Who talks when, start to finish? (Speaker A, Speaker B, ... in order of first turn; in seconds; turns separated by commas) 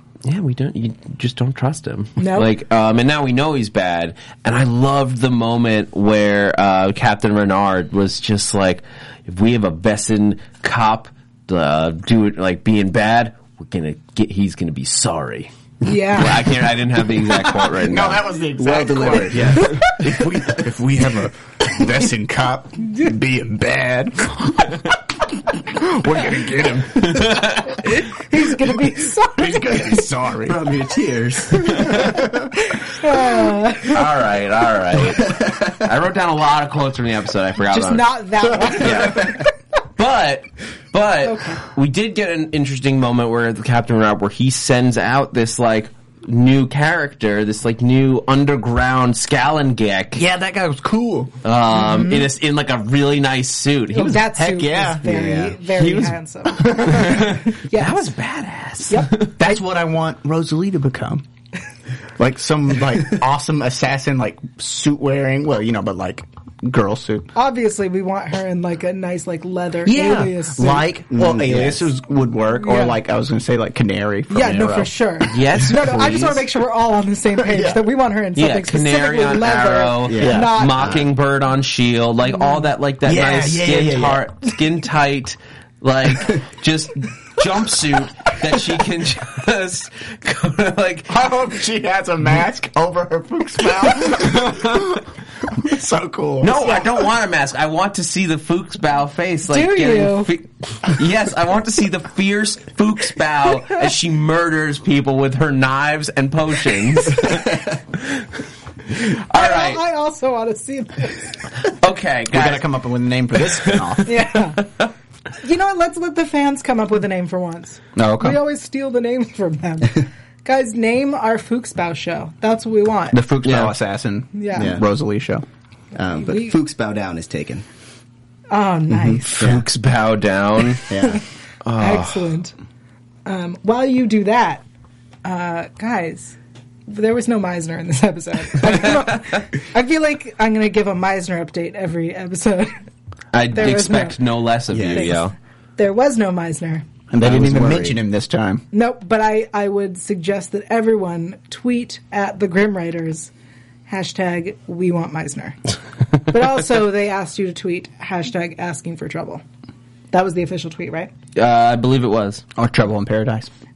Speaker A: 0.2-15.5, Speaker B: 2.2-2.5, Speaker B: 15.8-16.5, Speaker A: 16.1-18.2, Speaker C: 17.8-25.0, Speaker D: 18.6-19.8, Speaker B: 19.3-20.0, Speaker C: 25.5-27.4, Speaker A: 27.0-27.7, Speaker B: 27.8-30.0, Speaker C: 29.4-30.6, Speaker D: 30.4-32.2, Speaker A: 31.6-32.2, Speaker B: 31.7-32.0, Speaker B: 32.6-34.1, Speaker A: 33.9-38.1, Speaker D: 35.2-35.7, Speaker B: 37.6-39.5, Speaker A: 38.8-39.4, Speaker A: 40.0-50.2, Speaker B: 41.2-41.6, Speaker C: 50.2-51.3, Speaker A: 51.4-54.3, Speaker B: 51.7-52.3, Speaker B: 53.9-58.1, Speaker C: 54.1-57.0, Speaker D: 55.0-55.6, Speaker A: 56.7-59.3, Speaker B: 58.9-59.2, Speaker C: 59.3-61.2, Speaker C: 62.2-67.3, Speaker B: 67.3-70.9, Speaker C: 69.8-75.7, Speaker D: 70.7-71.9, Speaker B: 72.6-73.0, Speaker B: 74.3-81.0, Speaker A: 75.2-76.5, Speaker A: 78.3-91.1, Speaker D: 80.0-81.0, Speaker C: 80.2-80.5, Speaker B: 82.3-82.7, Speaker C: 83.1-84.2, Speaker C: 91.1-97.1, Speaker A: 94.2-94.9, Speaker A: 96.4-108.2, Speaker B: 99.5-100.3, Speaker A: 109.0-109.8, Speaker B: 109.3-111.4, Speaker A: 111.7-112.7, Speaker C: 112.3-114.1, Speaker A: 113.6-114.1, Speaker B: 114.0-114.7, Speaker B: 115.4-123.2, Speaker C: 118.0-118.4, Speaker C: 123.1-125.4, Speaker A: 123.4-123.7, Speaker B: 124.3-124.8, Speaker D: 124.5-124.8, Speaker D: 125.9-127.7, Speaker B: 126.2-126.5, Speaker B: 128.5-129.3, Speaker D: 128.9-129.7, Speaker A: 129.2-130.9, Speaker D: 130.9-131.2, Speaker A: 131.6-132.3, Speaker B: 131.8-132.5, Speaker B: 133.3-134.6, Speaker B: 135.2-136.4, Speaker B: 136.9-142.8, Speaker A: 143.3-145.3, Speaker B: 143.5-144.2, Speaker D: 144.7-145.2, Speaker B: 144.7-146.9, Speaker C: 147.1-148.6, Speaker D: 147.2-148.0, Speaker B: 148.7-153.3, Speaker B: 153.9-155.6, Speaker B: 156.3-159.4, Speaker B: 160.1-161.1, Speaker A: 161.4-162.4, Speaker C: 162.6-163.5